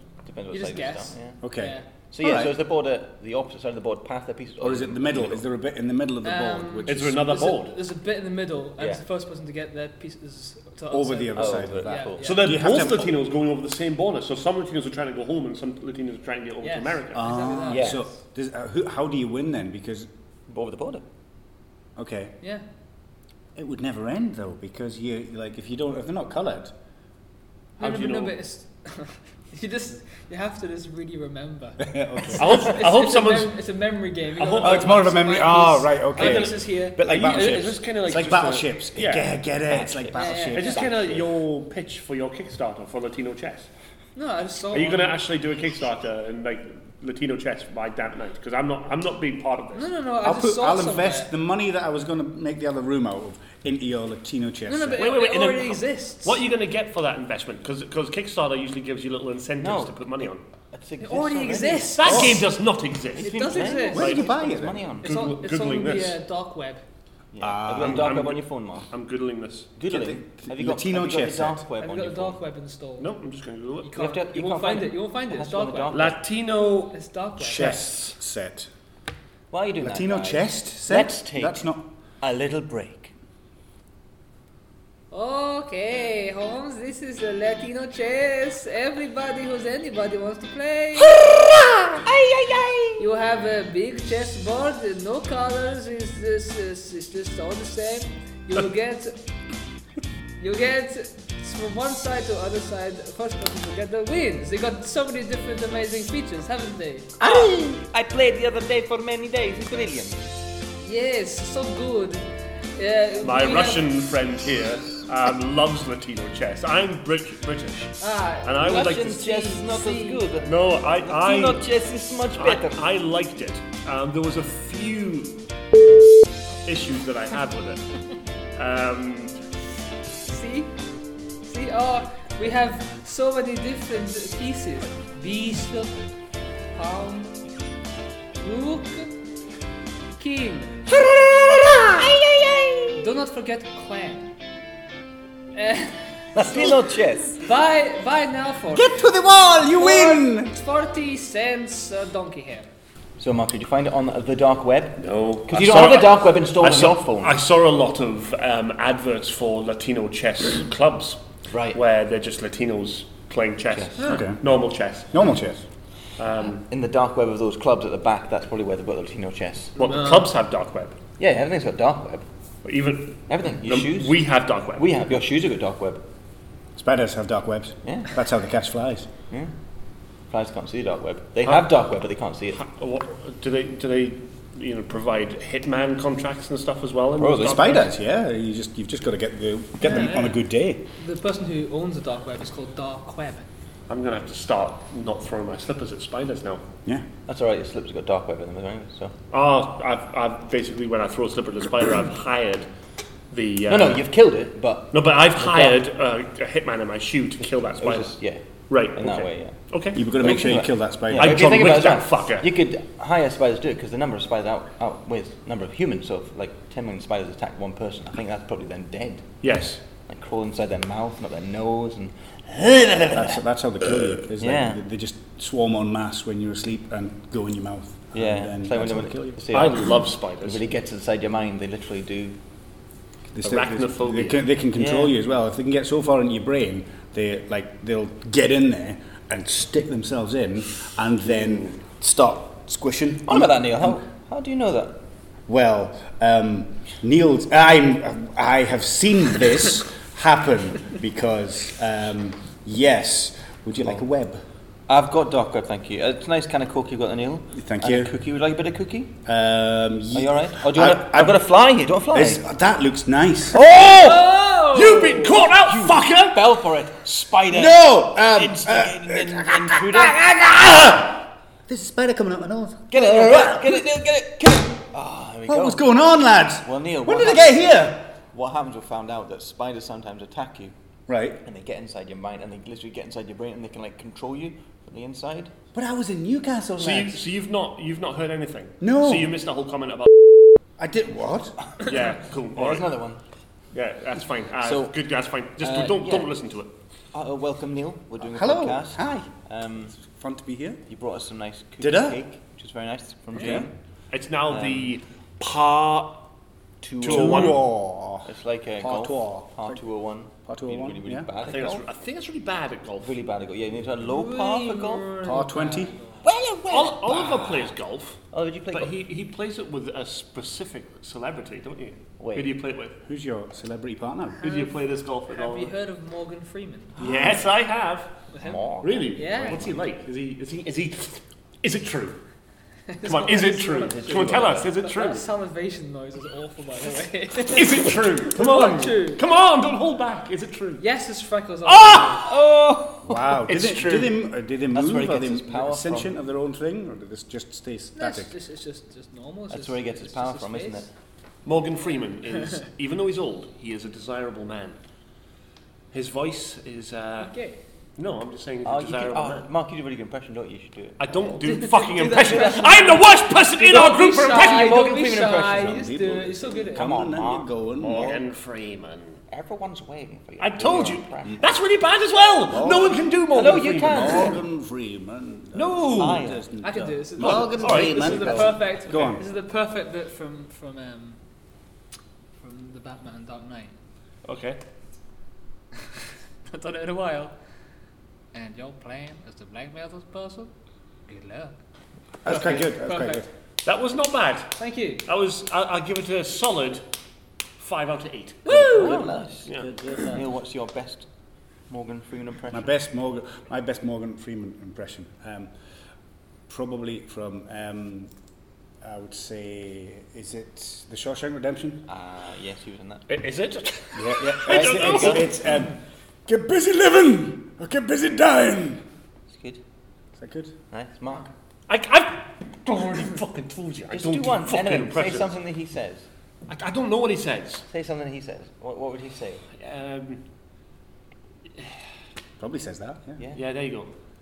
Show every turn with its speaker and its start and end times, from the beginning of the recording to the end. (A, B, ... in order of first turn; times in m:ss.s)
0:00.2-0:01.4 A
0:00.5-0:01.9 B
0:01.4-0:02.6 C
0:02.1-0:05.4 A
0:04.6-0:07.3 C
0:06.2-0:12.4 B
0:06.9-0:07.8 D
0:10.9-0:13.1 C
0:11.3-0:12.9 A
0:12.2-0:17.3 D
0:16.6-0:18.1 B
0:17.1-0:20.1 C
0:17.7-0:18.0 A
0:20.5-0:21.0 A
0:22.0-0:22.3 C
0:23.5-0:26.7 C
0:27.8-0:37.5 B
0:27.8-0:28.4 D
0:31.8-0:32.7 C
0:32.4-0:33.5 D
0:34.4-0:35.1 D
0:34.6-0:41.2 C
0:36.1-0:39.3 D
0:39.7-0:40.3 A
0:40.1-0:40.9 B
0:40.5-0:43.7 D
0:44.2-0:45.2 B
0:44.7-0:49.9 D
0:49.7-0:51.3 B
0:50.2-0:55.1 C
0:54.7-0:56.4 B
0:55.0-1:00.4 D
0:59.6-1:00.0 A
1:00.7-1:02.4 A
1:01.0-1:02.4 B
1:02.0-1:04.2 D
1:02.0-1:02.5 C
1:03.1-1:05.1 A
1:03.2-1:04.2 B
1:03.9-1:04.9 C
1:05.0-1:06.2 D
1:05.0-1:06.8 B
1:07.3-1:08.9 A
1:07.4-1:08.2 C
1:07.8-1:09.7 D
1:09.8-1:12.4 A
1:09.9-1:11.6 C
1:11.8-1:13.1 B
1:13.0-1:13.9 D
1:13.8-1:16.1 B
1:13.9-1:16.2 A
1:15.9-1:18.1 D
1:16.9-1:17.8 B
1:17.4-1:18.7 C
1:19.5-1:21.6 A
1:19.8-1:21.8 C
1:22.2-1:23.1 A
1:25.1-1:31.2 B
1:31.0-1:33.0 A
1:33.0-1:39.2 B
1:40.4-1:47.1 B
1:47.2-1:50.4 A
1:50.8-1:54.0 B
1:53.2-1:59.3 D
1:58.0-2:00.2 B
1:58.6-2:02.8 A
2:00.4-2:01.6 D
2:02.4-2:05.4 D
2:06.6-2:07.8 D
2:08.6-2:09.3 D
2:10.2-2:10.7 B
2:11.4-2:16.0 B
2:16.7-2:17.4 B
2:18.4-2:19.1 B
2:20.2-2:20.9 B
2:20.9-2:23.1 A
2:23.0-2:24.3 B
2:25.5-2:26.0 B
2:26.3-2:27.4 A
2:27.4-2:29.0 B
2:28.7-2:30.6 C
2:29.7-2:32.7 B
2:33.2-2:37.4 A
2:35.0-2:41.2 D
2:41.5-2:41.8 A
2:41.7-2:45.1 D
2:43.7-2:44.1 A
2:44.0-2:44.4 C
2:45.1-2:45.6 C
2:46.2-2:46.6 D
2:46.6-2:49.7 A
2:49.8-2:51.0 D
2:49.8-2:50.3 B
2:51.2-2:52.2 A
2:52.6-2:54.9 D
2:53.3-2:54.2 A
2:54.8-2:56.0 A
2:56.8-2:59.1 C
2:57.8-2:58.1 A
3:00.3-3:02.6 A
3:01.4-3:01.7 D
3:02.5-3:07.9 D
3:07.2-3:07.8 A
3:07.4-3:10.8 C
3:09.8-3:10.4 B
3:11.0-3:13.5 B
3:13.9-3:16.6 D
3:17.3-3:19.1 A
3:19.3-3:22.7 D
3:23.3-3:24.1 D
3:23.7-3:25.8 A
3:24.9-3:28.2 D
3:27.8-3:29.6 A
3:28.7-3:30.0 D
3:29.9-3:31.8 C
3:30.1-3:39.3 A
3:31.1-3:32.5 D
3:39.4-3:39.8 D
3:40.0-3:43.4 A
3:43.1-3:49.4 C
3:44.4-3:44.8 A
3:48.1-3:52.4 A
3:49.5-3:50.6 D
3:53.3-4:04.0 C
3:53.4-3:54.4 D
3:54.7-3:55.1 A
4:03.3-4:05.0 A
4:05.5-4:14.4 C
4:14.9-4:19.1 A
4:17.5-4:18.1 C
4:19.2-4:21.5 C
4:20.1-4:22.4 A
4:22.1-4:23.6 C
4:23.5-4:24.4 A
4:23.8-4:25.3 B
4:24.7-4:26.5 D
4:25.4-4:30.2 A
4:27.5-4:33.9 C
4:32.9-4:35.8 A
4:35.4-4:38.0 C
4:36.6-4:40.7 A
4:41.1-4:41.4 C
4:41.4-4:45.5 A
4:45.7-4:47.2 C
4:46.8-4:50.1 D
4:48.8-4:49.3 C
4:50.8-4:51.5 C
4:51.8-4:52.9 D
4:52.5-4:53.2 A
4:53.7-4:56.7 D
4:54.6-4:54.9 A
4:55.6-4:56.3 A
4:57.1-4:59.9 A
4:58.2-4:59.3 C
4:59.9-5:00.8 C
5:00.9-5:03.7 A
5:01.8-5:02.2 C
5:03.4-5:03.7 C
5:04.1-5:06.2 D
5:04.5-5:04.9 A
5:06.8-5:07.6 A
5:07.0-5:07.6 D
5:07.0-5:09.8 C
5:08.2-5:11.8 A
5:10.4-5:11.3 C
5:11.4-5:13.2 D
5:13.0-5:15.2 A
5:14.0-5:16.2 B
5:15.2-5:15.9 C
5:16.2-5:17.6 A
5:16.7-5:18.2 D
5:18.3-5:19.0 A
5:18.7-5:23.0 D
5:22.2-5:22.5 A
5:23.0-5:24.4 C
5:24.4-5:25.7 D
5:24.4-5:24.7 B
5:25.3-5:27.1 B
5:27.0-5:28.1 D
5:28.3-5:28.6 B
5:28.4-5:29.7 A
5:28.8-5:32.2 D
5:29.1-5:29.7 B
5:32.9-5:39.2 B
5:33.0-5:35.2 D
5:33.9-5:34.7 A
5:37.5-5:40.8 D
5:40.8-5:42.2 B
5:41.6-5:42.3 D
5:42.2-5:43.4 A
5:43.0-5:48.3 C
5:43.5-5:44.2 D
5:44.7-5:46.1 A
5:48.0-5:50.8 B
5:49.5-5:50.9 A
5:51.4-5:54.8 D
5:55.9-5:57.3 D
5:57.2-5:57.6 B
5:58.0-5:59.5 D
5:58.6-6:01.1 A
6:01.0-6:04.8 D
6:01.4-6:06.9 B
6:02.1-6:03.0 A
6:03.7-6:05.8 A
6:05.5-6:08.2 C
6:06.7-6:07.5 A
6:07.8-6:09.2 D
6:09.3-6:11.4 A
6:10.4-6:14.4 D
6:12.5-6:19.2 C
6:13.3-6:14.4 A
6:15.5-6:16.3 D
6:15.9-6:16.4 A
6:16.6-6:21.2 B
6:17.2-6:18.4 D
6:18.0-6:18.5 A
6:22.4-6:23.7 B
6:24.2-6:24.6 D
6:26.5-6:27.3 B
6:28.3-6:30.5 B
6:31.1-6:31.5 B
6:32.2-6:33.2 C
6:32.3-6:33.2 B
6:33.6-6:36.8 D
6:34.6-6:35.0 B
6:37.6-6:39.7 D
6:38.4-6:39.2 B
6:38.5-6:39.5 A
6:39.6-6:40.2 C
6:40.0-6:41.1 A
6:41.7-6:42.7 A
6:42.5-6:45.5 C
6:46.5-6:48.1 C
6:48.8-6:51.8 C
6:51.9-6:53.0 A
6:53.1-6:55.4 D
6:53.9-6:58.8 C
6:54.2-6:55.3 A
6:59.3-6:59.6 A
7:00.2-7:00.5 C
7:00.7-7:01.3 A
7:01.7-7:05.3 D
7:03.9-7:06.1 A
7:06.5-7:07.6 D
7:07.7-7:09.4 A
7:09.5-7:10.2 D
7:12.4-7:13.2 C
7:13.3-7:13.9 D